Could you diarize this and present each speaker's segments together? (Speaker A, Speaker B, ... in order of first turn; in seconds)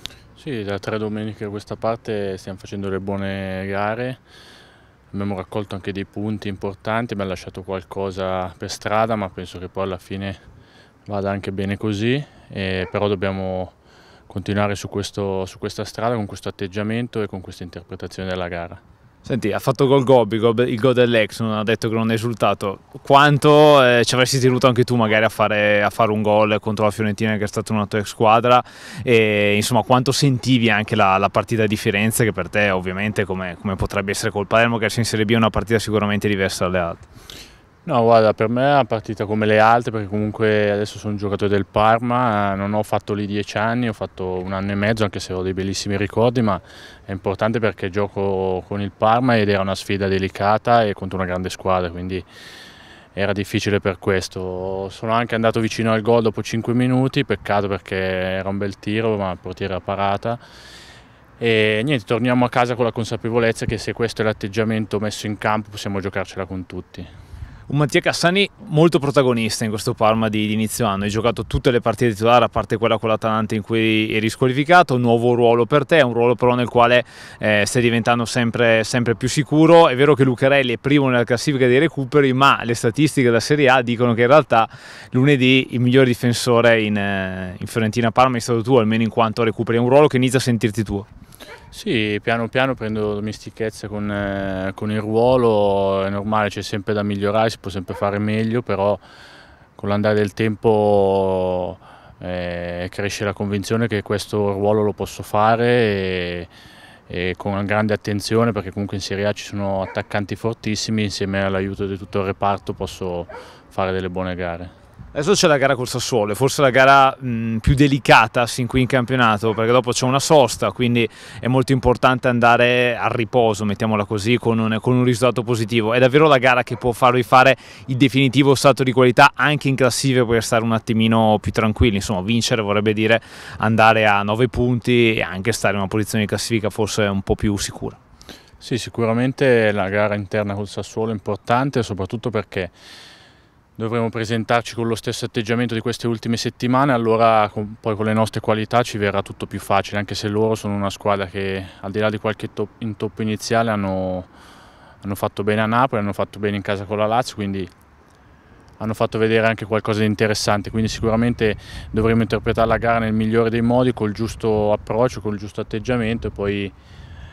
Speaker A: 0.4-4.2, 5.1-10.4, 11.1-13.7, 14.3-18.8, 37.8-52.2, 53.1-60.4, 61.4-67.1, 91.7-99.0, 99.8-106.5, 107.1-114.7, 138.6-142.7, 143.8-154.3, 155.0-157.7, 158.8-166.7
Speaker B: 19.2-37.0, 67.7-91.1, 115.1-138.0